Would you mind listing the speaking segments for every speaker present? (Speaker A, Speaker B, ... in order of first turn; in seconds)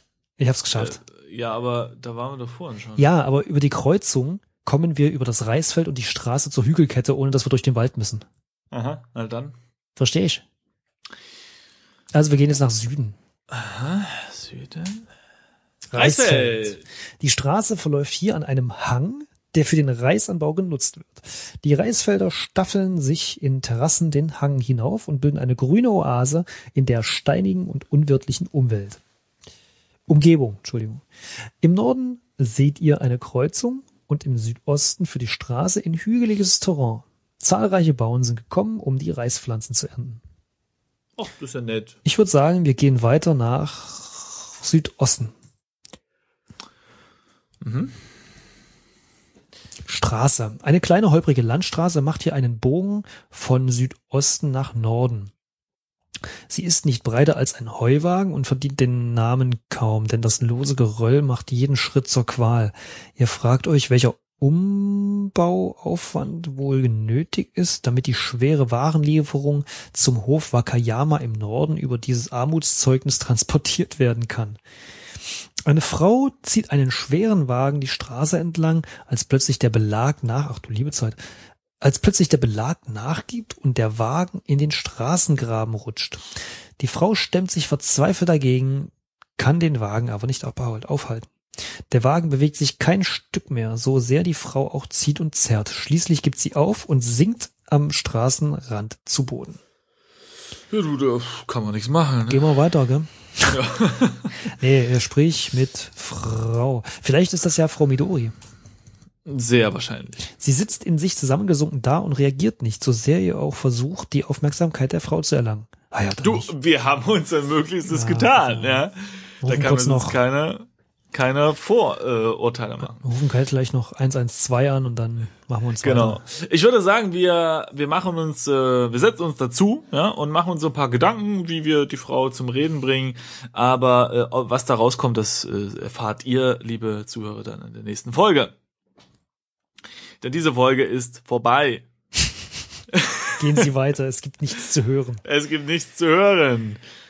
Speaker A: 0.4-1.0, 3.0-8.3, 10.0-10.4, 12.1-13.2, 15.9-29.0, 30.1-40.2, 42.0-45.3, 49.9-55.3, 56.5-74.6, 75.7-81.2, 81.8-91.3, 91.9-99.6, 102.3-103.7, 104.4-108.3, 110.3-116.5, 117.8-118.9, 119.4-120.2, 122.8-126.2, 143.4-145.2
Speaker B: 0.8-3.1, 8.7-9.6, 13.5-15.1, 15.9-16.8, 41.2-42.0, 47.6-48.0, 100.7-102.5, 103.5-104.4, 109.3-110.2, 116.2-123.0, 125.8-138.5, 140.2-141.9, 142.9-143.6, 145.2-146.8